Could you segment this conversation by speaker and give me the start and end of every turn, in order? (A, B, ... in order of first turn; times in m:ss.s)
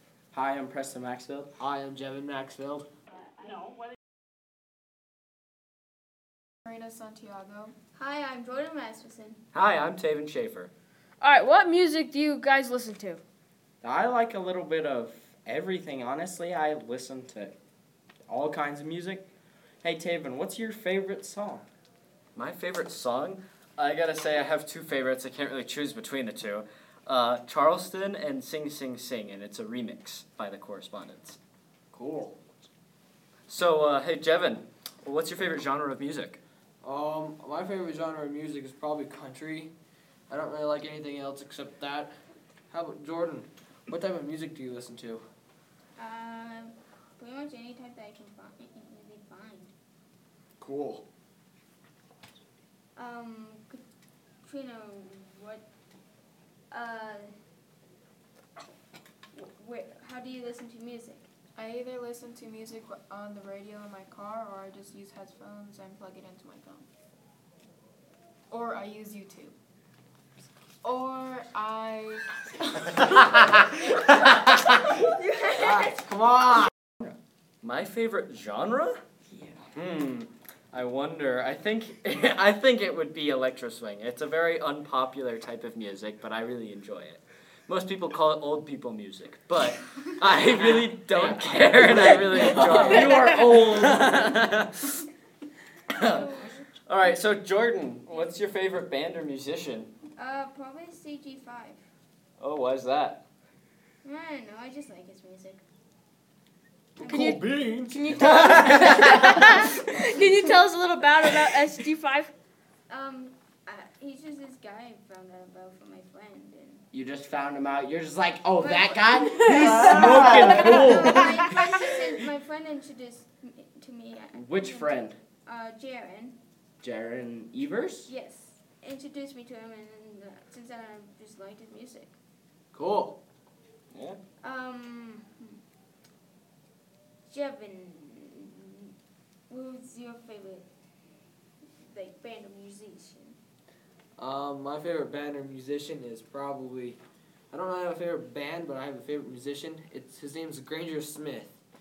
0:00.3-0:01.5 A
0:01.6-0:02.9 B
0:06.6-0:07.8 C
0:08.0-0:09.4 D
0:09.5-0:10.7 E
0:11.2-0:13.2 F
0:13.8-0:17.6 A
0:18.3-0:19.3 A
0:19.8-0:21.7 A
0:22.4-0:31.4 E
0:31.9-0:32.4 B
0:33.5-0:36.4 E
0:36.8-0:39.7 B
0:40.3-0:42.1 B
0:42.7-0:45.2 B
0:46.0-0:49.7 D
0:50.6-0:51.0 B
0:53.0-0:53.8 D
0:54.4-0:55.7 D
0:56.7-0:57.3 D
0:59.3-1:01.3 D
1:01.6-1:06.9 C
1:08.5-1:09.6 C
1:10.8-1:12.2 C
1:14.2-1:16.0 D
1:15.6-1:16.7 B
1:17.6-1:19.0 E
1:19.3-1:19.6 A
1:19.8-1:35.0 E
1:30.6-1:32.8 B
1:31.8-1:34.2 A
1:36.0-1:36.3 E
1:36.0-1:36.7 D
1:36.9-1:39.9 E
1:40.2-1:41.8 D
1:42.4-1:43.2 E
1:44.0-1:45.6 D
1:47.0-1:47.4 D
1:47.0-1:49.4 E
1:47.0-1:52.3 F
1:47.2-1:47.7 B
1:48.3-1:48.6 B
1:49.2-1:50.1 D
1:52.9-1:56.9 D
1:56.9-2:01.4 A
1:58.6-2:06.4 D
2:00.6-2:01.0 E
2:04.3-2:05.2 A
2:06.8-2:08.1 A
2:08.1-2:12.1 D
2:12.7-2:13.2 B
2:13.9-2:14.2 E
2:14.4-2:15.6 D
2:17.3-2:18.9 D
2:19.5-2:20.7 D
2:21.6-2:23.4 D
2:24.2-2:27.0 B
2:27.5-2:31.5 B